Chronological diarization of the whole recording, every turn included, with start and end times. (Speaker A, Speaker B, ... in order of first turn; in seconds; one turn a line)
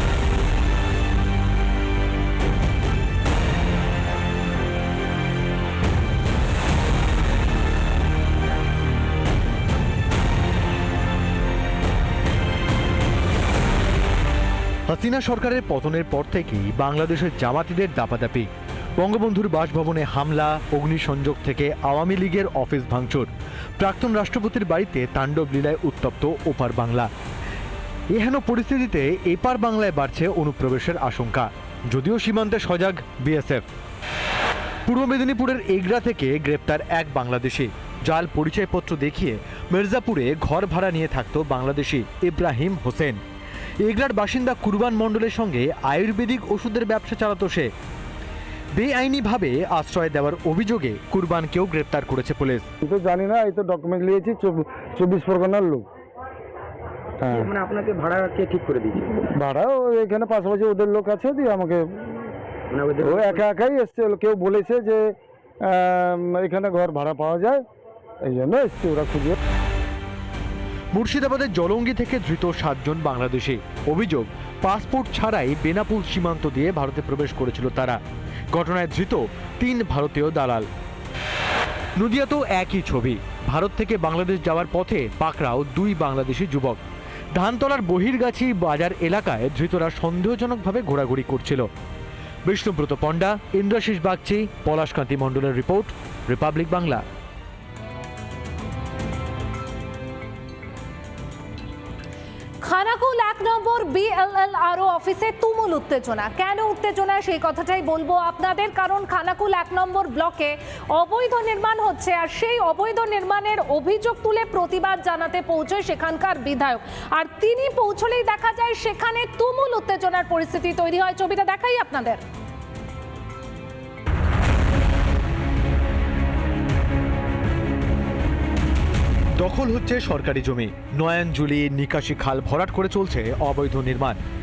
Speaker A: 14.9-27.1
Speaker A: 28.1-33.7
Speaker A: 34.9-43.2
Speaker A: 43.8-47.7
Speaker A: 48.8-52.7
Speaker B: 52.8-55.9
Speaker C: 57.2-59.3
Speaker B: 59.4-61.8
Speaker C: 62.7-63.5
Speaker B: 63.0-65.0
Speaker B: 65.7-67.6
Speaker B: 68.2-69.4
Speaker A: 70.9-78.0
Speaker A: 78.5-80.7
Speaker A: 82.0-86.8
Speaker A: 87.3-91.7
Speaker A: 92.5-97.0
Speaker D: 102.6-122.2
Speaker A: 129.4-134.2